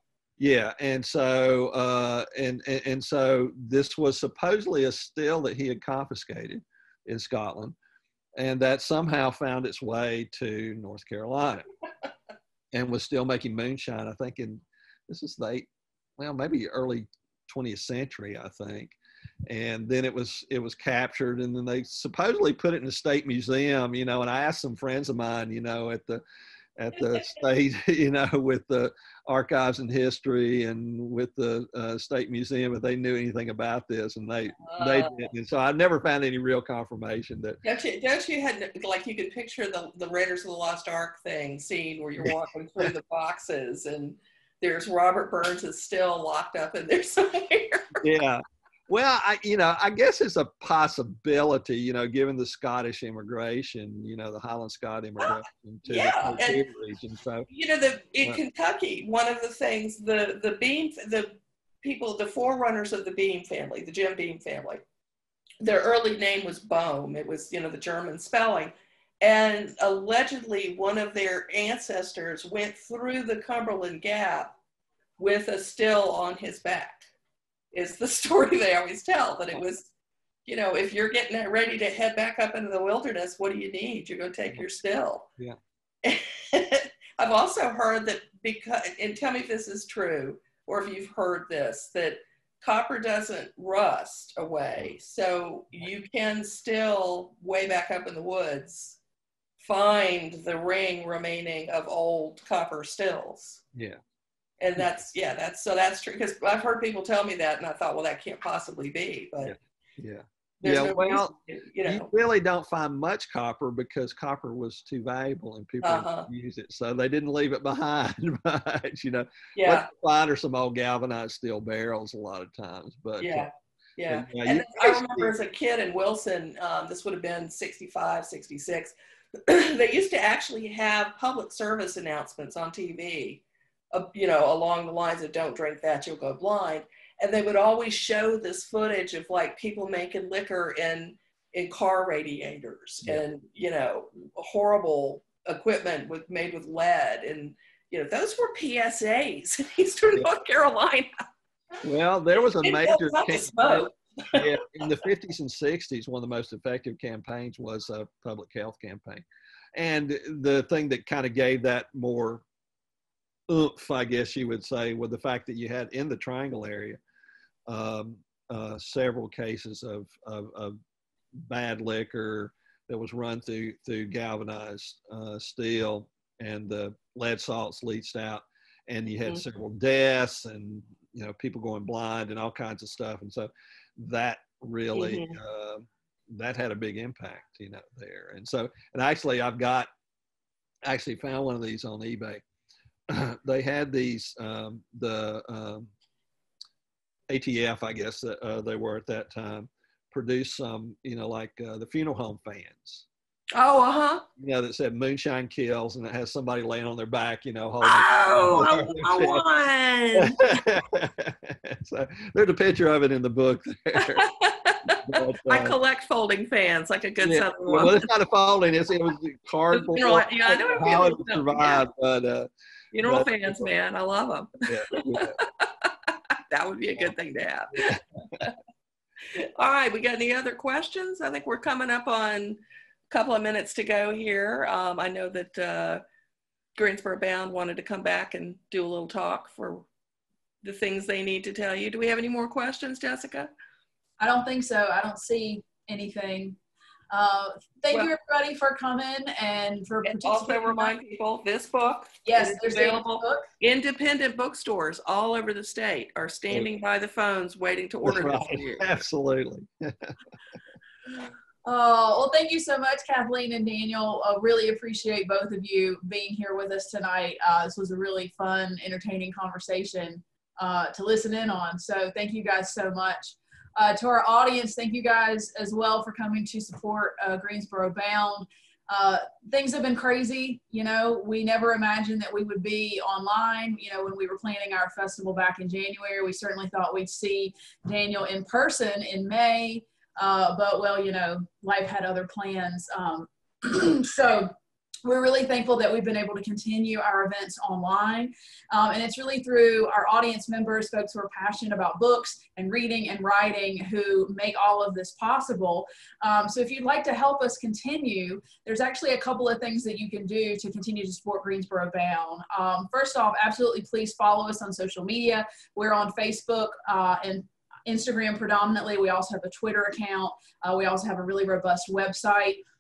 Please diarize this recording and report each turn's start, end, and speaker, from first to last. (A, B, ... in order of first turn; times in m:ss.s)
0:00.4-0:07.8 A
0:08.4-0:11.7 A
0:12.7-0:19.0 A
0:19.5-0:26.2 A
0:26.8-0:37.6 A
0:34.7-0:35.3 B
0:37.6-0:48.0 B
0:42.2-0:42.9 A
0:48.0-0:57.5 A
0:55.9-0:56.6 B
0:57.5-1:04.8 B
1:05.6-1:14.5 B
1:15.2-1:17.1 B
1:17.7-1:19.9 B
1:20.5-1:25.3 B
1:26.0-1:39.0 B
1:39.6-1:43.6 B
1:43.7-1:44.0 A
1:44.6-1:49.5 B
1:44.8-1:45.0 A
1:49.4-1:51.3 A
1:50.6-1:52.1 B
1:51.9-2:03.5 A
1:55.8-1:56.3 B
1:59.6-1:59.9 B
2:03.2-2:31.1 B
2:04.1-2:05.3 A
2:31.8-2:39.2 A
2:32.6-2:34.5 B
2:39.8-2:42.4 A
2:43.5-2:47.0 A
2:47.7-2:50.8 A
2:51.4-3:09.9 A
3:05.0-3:05.4 B
3:10.8-3:12.4 A
3:13.1-3:15.9 A
3:17.3-3:23.1 A
3:23.5-3:24.2 B
3:24.4-3:29.4 A
3:27.8-3:30.6 B
3:30.2-3:34.3 A
3:34.0-3:38.1 B
3:35.0-3:35.8 A
3:37.2-3:42.5 A
3:39.7-3:41.8 B
3:42.9-3:45.9 B
3:43.0-3:43.7 A
3:44.7-3:45.4 A
3:46.5-3:48.5 B
3:47.8-3:48.5 A
3:49.3-3:56.0 B
3:56.8-3:59.9 B
4:00.6-4:03.5 B
4:04.2-4:06.6 C
4:07.1-4:10.9 C
4:10.1-4:18.8 B
4:12.2-4:13.4 C
4:18.0-4:20.2 A
4:21.6-4:54.5 C
4:55.0-5:22.6 C